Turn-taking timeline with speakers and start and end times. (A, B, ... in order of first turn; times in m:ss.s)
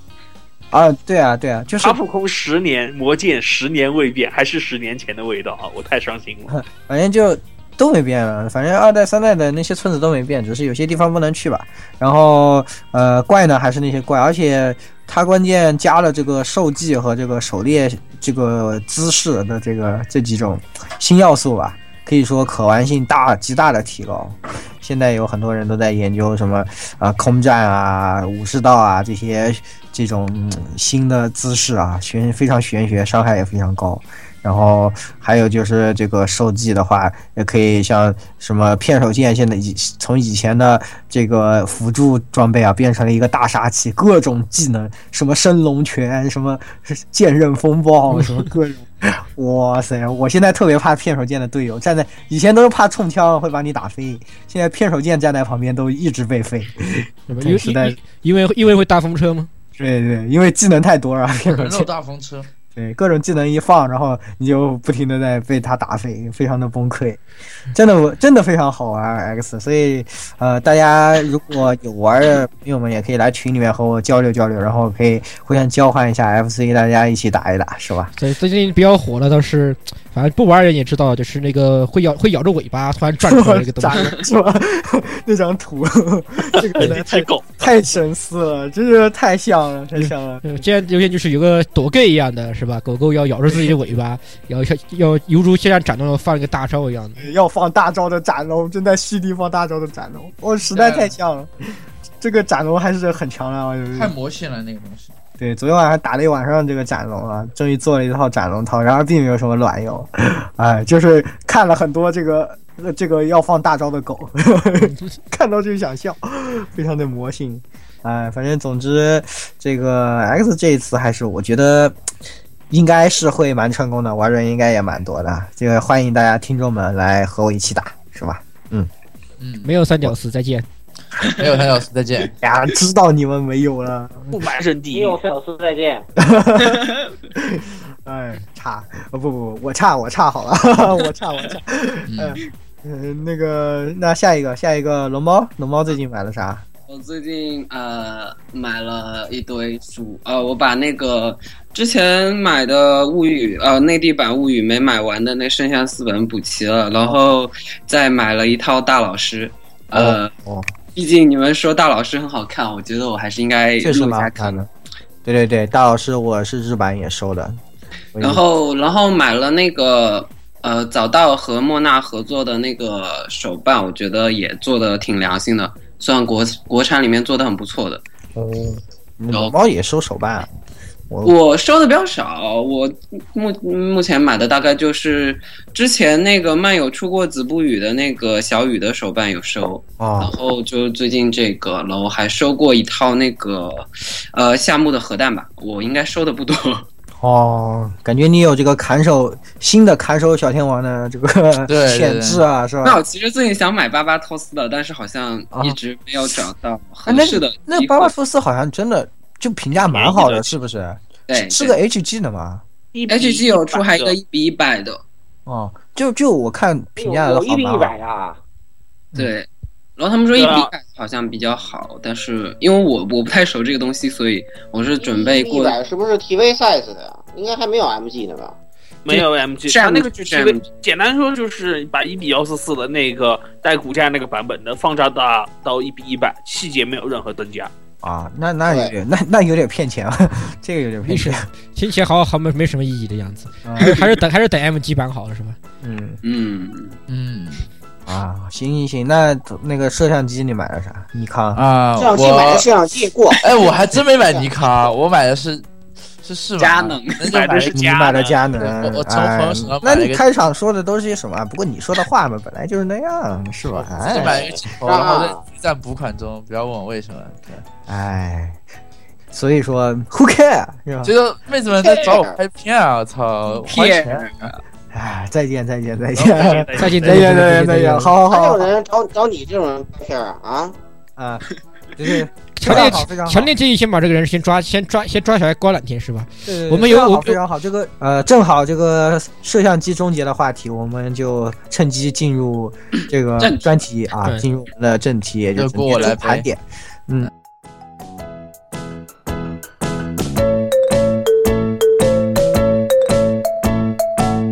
0:00.7-0:02.0 A
0:01.8-0:06.6 B
0:06.5-0:58.0 A
0:57.3-0:59.5 C
0:59.8-1:01.9 A
1:01.5-1:02.5 D
1:02.7-1:18.1 A
1:18.2-1:24.2 C
1:23.3-1:30.4 A
1:26.7-1:27.7 B
1:29.9-1:37.3 C
1:33.5-1:33.8 A
1:37.2-1:44.1 A
1:40.7-1:41.1 D
1:43.9-1:45.1 D
1:45.4-2:02.0 A
2:02.7-2:08.9 A
2:09.4-2:09.8 D
2:09.6-2:10.6 C
2:11.4-2:12.3 D
2:12.4-2:14.2 A
2:14.3-2:15.2 B
2:14.9-2:16.0 E
2:16.2-2:26.6 A
2:22.1-2:22.4 D
2:26.9-2:40.3 F
2:39.9-2:40.7 A
2:40.9-2:44.6 F
2:43.8-2:44.7 A
2:45.2-2:47.6 A
2:48.1-2:48.4 A
2:48.2-2:58.0 F
2:58.3-3:00.5 A
3:01.1-3:01.3 A
3:01.2-3:16.9 F
3:10.0-3:10.3 A
3:17.2-3:23.0 A
3:21.7-3:22.4 D
3:22.8-3:28.1 F
3:25.5-3:25.8 A
3:27.0-3:32.6 A
3:29.8-3:30.6 B
3:31.3-3:31.8 F
3:32.9-3:34.1 B
3:33.1-3:35.0 F
3:35.4-3:37.9 A
3:37.0-3:38.4 E
3:39.2-3:45.8 F
3:40.3-3:40.7 B
3:45.0-3:48.6 E
3:49.0-3:57.7 B
3:49.1-3:50.6 F
3:58.0-4:01.5 A
3:58.7-3:58.9 E
4:01.0-4:05.6 C
4:03.6-4:04.0 A
4:05.8-4:06.2 A
4:06.2-4:07.0 F
4:07.1-4:07.7 D
4:08.0-4:11.6 A
4:11.5-4:12.7 D
4:12.0-4:14.9 E
4:13.4-4:15.6 D
4:16.2-4:17.8 D
4:16.6-4:17.4 F
4:17.3-4:18.4 B
4:17.4-4:24.4 A
4:18.6-4:20.2 D
4:23.8-4:27.6 D
4:24.0-4:25.4 E
4:27.8-4:28.6 A
4:29.3-4:31.1 A
4:31.0-4:34.4 D
4:31.7-4:32.4 E
4:33.5-4:34.6 F
4:34.9-4:38.7 A
4:36.2-4:37.3 B
4:36.8-4:38.1 C
4:38.3-4:40.7 E
4:41.2-4:41.4 A
4:42.0-4:43.5 A
4:42.6-4:47.4 C
4:46.4-4:57.3 A
4:53.4-4:53.8 F
4:55.6-4:56.4 D